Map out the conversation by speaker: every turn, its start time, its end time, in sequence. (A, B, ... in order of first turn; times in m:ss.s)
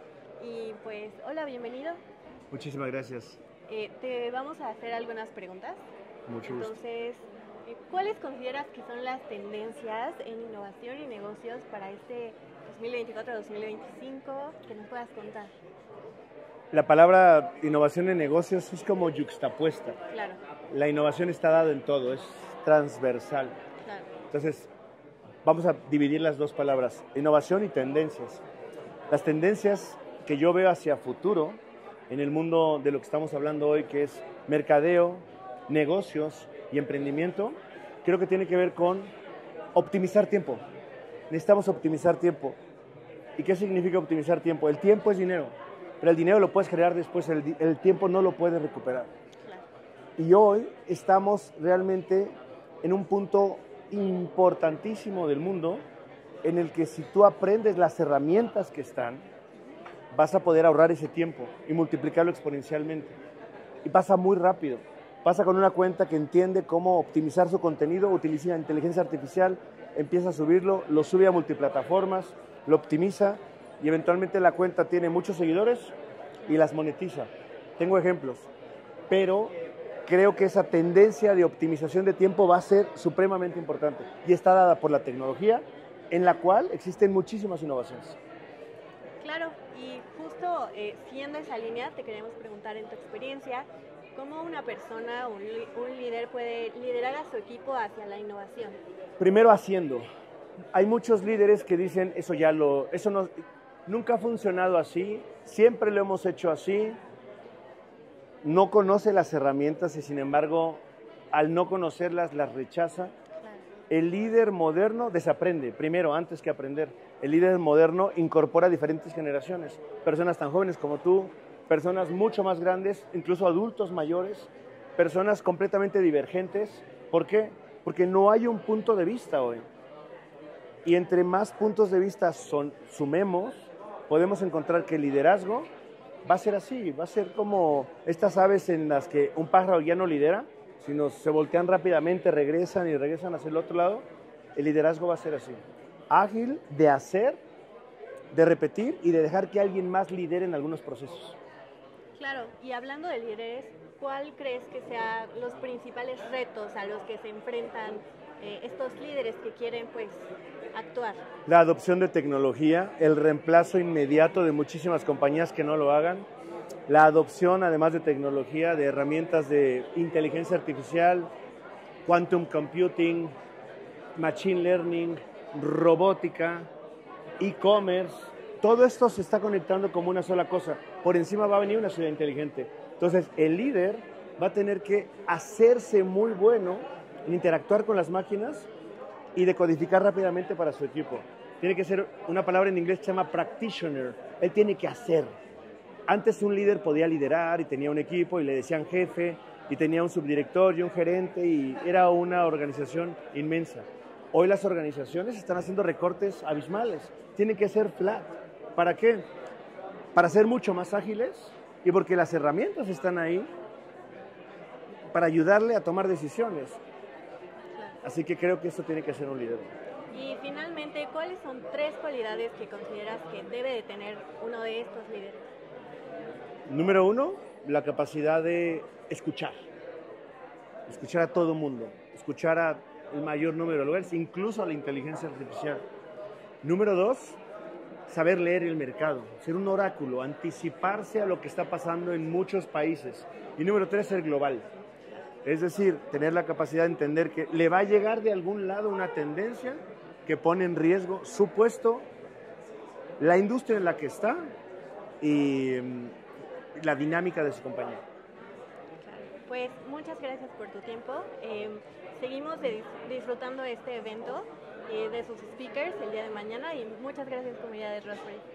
0:00.4-0:02.0 A
0:02.5-0:03.4 B
0:03.7-0:05.8 A
0:06.3-0:06.8 B
0:06.4-0:15.5 A
0:16.7-0:20.0 B
0:20.1-0:20.4 A
0:20.7-0:23.5 B
0:23.8-0:24.1 A
0:24.3-0:24.7 B
0:25.4-0:28.4 B
0:29.1-0:39.1 B
0:39.7-0:40.6 B
0:41.3-0:42.6 B
0:43.4-0:49.1 B
0:50.2-0:55.8 B
0:56.4-0:59.2 B
1:00.1-1:03.1 B
1:03.8-1:15.9 B
1:16.5-1:18.5 B
1:19.1-1:19.5 B
1:20.0-1:28.2 B
1:29.2-1:38.8 A
1:39.2-1:40.0 B
1:40.7-1:47.0 B
1:48.4-1:53.1 B
1:53.9-2:09.6 B
2:10.8-2:15.7 B
2:16.2-2:27.4 B
2:28.3-2:31.4 B
2:32.2-2:41.2 A
2:41.4-2:46.3 B
2:46.9-2:51.3 B
2:52.0-2:53.3 B
2:54.2-2:56.7 B
2:57.4-3:08.7 B
3:09.3-3:15.3 B
3:16.1-3:29.2 B
3:30.1-3:33.5 B
3:35.1-3:36.8 B
3:38.0-3:39.7 B
3:40.1-3:45.5 A
3:46.7-3:49.5 B
3:50.9-3:55.8 B
3:56.6-3:57.4 B
3:58.1-4:04.6 B
4:05.4-4:12.1 B
4:13.2-4:14.4 B
4:15.2-4:16.2 B
4:16.8-4:18.0 B
4:19.0-4:28.4 A